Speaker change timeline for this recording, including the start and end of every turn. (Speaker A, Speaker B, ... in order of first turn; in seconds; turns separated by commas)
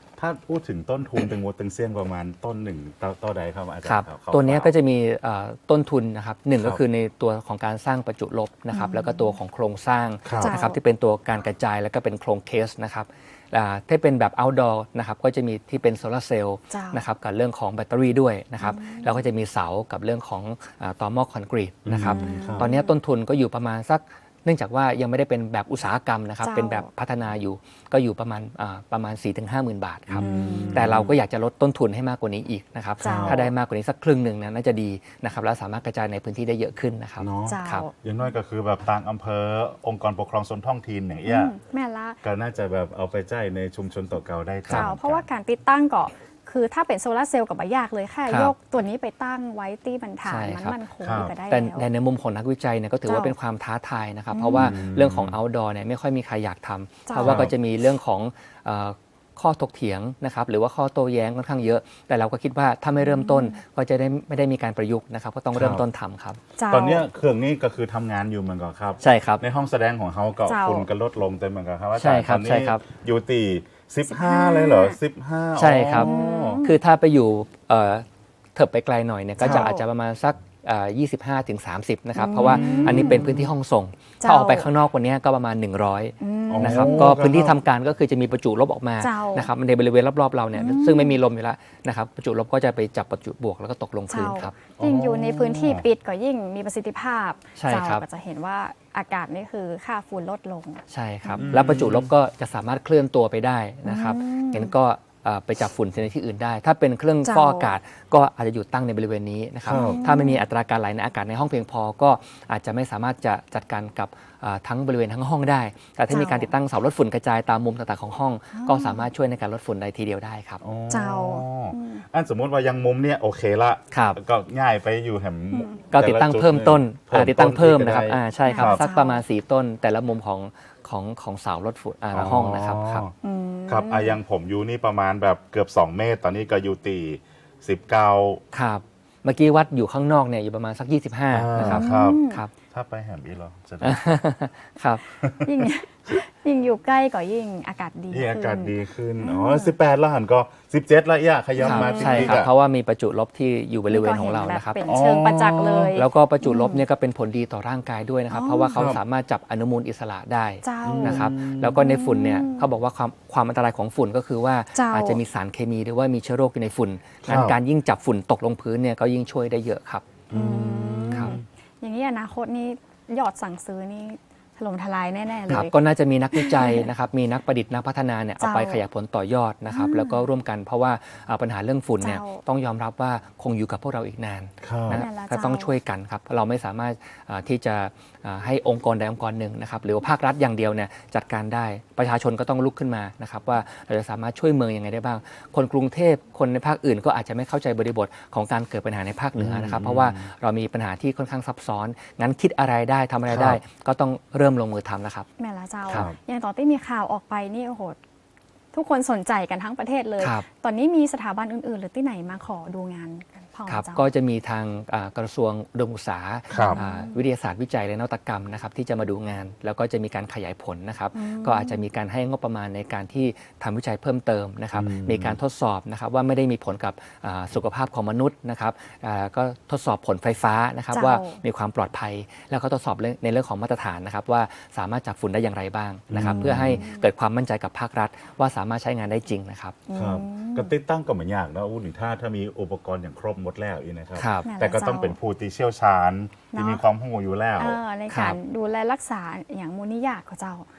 Speaker A: 0.2-4.7, Speaker B: 3.8-37.9, Speaker C: 8.7-9.3, Speaker A: 10.2-10.6, Speaker C: 10.4-10.8, Speaker C: 16.7-17.0, Speaker C: 18.6-19.2, Speaker A: 21.8-22.7, Speaker C: 22.1-22.8, Speaker C: 26.4-26.9, Speaker A: 30.1-31.1, Speaker C: 30.2-30.7, Speaker A: 33.0-33.5, Speaker C: 33.0-33.5, Speaker A: 37.2-41.5, Speaker C: 37.5-37.9, Speaker C: 41.3-42.2, Speaker A: 42.2-45.2, Speaker B: 44.7-44.9, Speaker C: 44.8-51.9, Speaker B: 48.3-48.5, Speaker B: 50.2-50.8, Speaker A: 51.0-51.3, Speaker B: 51.5-66.4, Speaker C: 53.1-53.3, Speaker C: 54.3-54.7, Speaker A: 54.5-55.4, Speaker A: 57.2-57.5, Speaker C: 63.1-63.5, Speaker A: 65.5-65.8, Speaker C: 66.6-67.0, Speaker A: 66.7-76.6, Speaker B: 69.0-69.4, Speaker C: 70.5-70.8, Speaker B: 71.9-72.8, Speaker C: 74.1-75.0, Speaker B: 75.6-94.5, Speaker C: 76.0-76.7, Speaker A: 79.4-79.7, Speaker C: 79.5-79.8, Speaker C: 82.2-83.2, Speaker A: 82.3-83.5, Speaker C: 84.2-84.7, Speaker C: 86.2-87.0, Speaker A: 86.5-87.6, Speaker C: 89.0-89.5, Speaker C: 90.5-91.1, Speaker C: 94.1-100.8, Speaker A: 94.8-95.8, Speaker B: 97.5-98.0, Speaker B: 100.9-120.6, Speaker A: 101.4-102.1, Speaker C: 103.8-104.7, Speaker C: 107.2-107.7, Speaker A: 109.6-110.1, Speaker C: 109.8-110.4, Speaker C: 116.1-116.5, Speaker C: 118.5-119.1, Speaker A: 120.6-128.8, Speaker C: 120.9-122.0, Speaker B: 123.9-124.2, Speaker B: 125.9-133.1, Speaker C: 128.5-129.2, Speaker A: 132.1-133.1, Speaker C: 133.2-134.1, Speaker A: 133.7-138.4, Speaker B: 138.5-142.5, Speaker A: 141.3-144.0, Speaker C: 141.8-142.4, Speaker B: 143.8-145.1, Speaker A: 145.2-145.5, Speaker C: 145.5-148.7, Speaker A: 148.1-152.5, Speaker C: 149.2-149.6, Speaker C: 151.6-152.3, Speaker B: 151.6-154.8, Speaker C: 153.9-156.8, Speaker A: 154.8-155.9, Speaker B: 155.9-170.1, Speaker C: 158.3-158.7, Speaker A: 158.7-159.0, Speaker C: 160.6-161.1, Speaker A: 160.8-161.8, Speaker C: 161.8-162.7, Speaker C: 164.7-165.2, Speaker A: 167.2-167.6, Speaker A: 170.3-171.4, Speaker C: 170.3-175.7, Speaker B: 171.1-171.4, Speaker B: 175.5-205.3, Speaker C: 176.3-176.8, Speaker C: 178.4-178.8, Speaker C: 179.7-180.2, Speaker C: 182.0-182.4, Speaker A: 184.6-185.1, Speaker C: 185.0-185.7, Speaker A: 199.3-200.3, Speaker A: 203.3-203.6, Speaker C: 205.4-208.0, Speaker A: 205.9-206.2, Speaker C: 208.7-214.1, Speaker B: 210.2-210.4, Speaker B: 213.7-239.8, Speaker A: 216.5-216.8, Speaker C: 216.6-217.2, Speaker C: 221.1-221.8, Speaker A: 224.7-225.4, Speaker C: 230.9-231.4, Speaker A: 236.1-236.8, Speaker C: 236.3-237.1, Speaker C: 239.9-240.7, Speaker A: 239.9-247.8, Speaker B: 244.2-244.5, Speaker C: 244.4-245.2, Speaker C: 246.5-246.8, Speaker C: 247.6-250.7, Speaker B: 248.1-248.4